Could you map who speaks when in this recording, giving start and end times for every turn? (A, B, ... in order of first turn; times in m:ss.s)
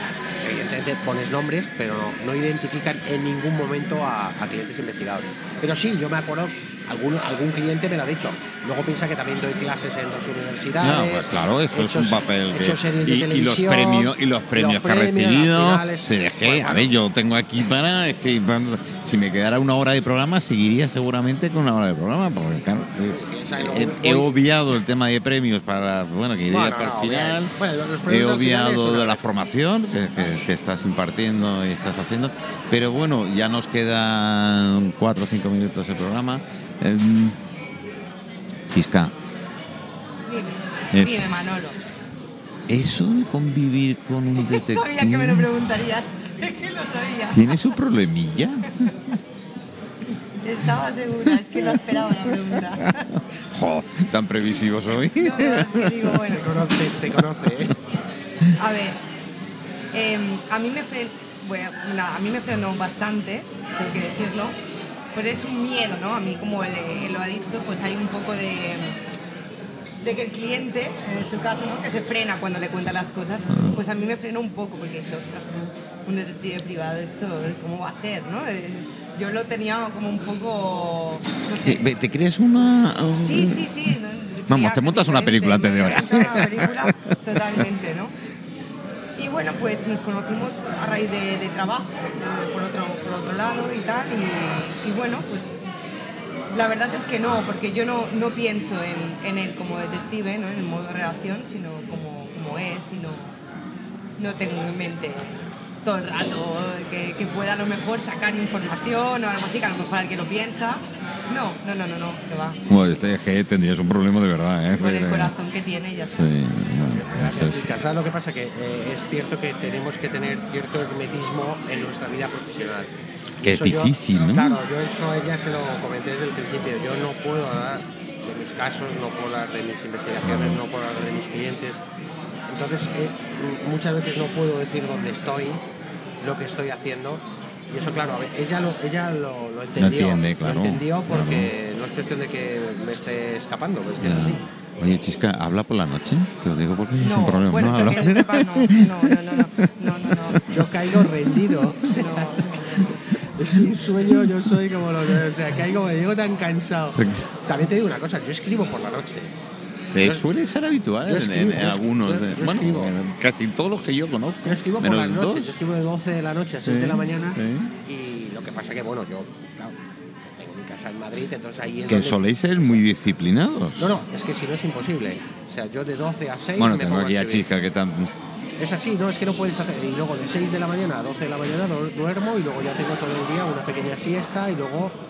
0:00.4-0:16.9 A
0:10.8-0:27.5 B
0:23.0-0:24.3 A
0:26.5-0:29.2 A
0:28.1-0:37.4 B
0:38.7-0:39.1 B
0:40.3-0:41.8 C
0:40.9-0:41.3 B
0:42.7-0:45.5 B
0:44.4-0:47.6 C
0:47.3-0:49.1 B
0:50.4-0:53.1 C
0:51.3-0:56.2 B
0:54.9-0:56.6 C
0:56.3-0:57.8 A
0:58.6-0:59.0 C
0:59.9-1:04.5 C
1:05.1-1:09.0 C
1:10.0-1:21.8 C
1:13.5-1:13.8 B
1:21.6-1:23.7 B
1:23.1-1:28.1 C
1:24.5-1:27.0 B
1:29.2-1:35.7 C
1:36.5-1:43.3 C
1:44.2-1:52.6 C
1:52.7-1:55.3 B
1:54.8-1:56.3 C
1:56.0-1:57.7 B
1:56.9-2:11.8 A
2:03.4-2:04.6 B
2:10.2-2:10.6 B
2:12.5-2:15.6 A
2:16.2-2:24.4 A
2:19.8-2:21.5 B
2:24.0-2:31.0 B
2:27.0-2:30.4 C
2:30.5-2:32.6 A
2:31.8-2:33.2 C
2:33.3-2:39.3 A
2:37.0-2:37.2 B
2:39.9-2:45.5 B
2:40.0-2:40.2 A
2:41.0-2:42.9 A
2:44.4-2:52.8 A
2:46.6-2:47.7 B
2:51.8-2:53.9 B
2:53.8-2:57.4 A
2:56.6-2:58.1 B
2:58.6-3:04.9 A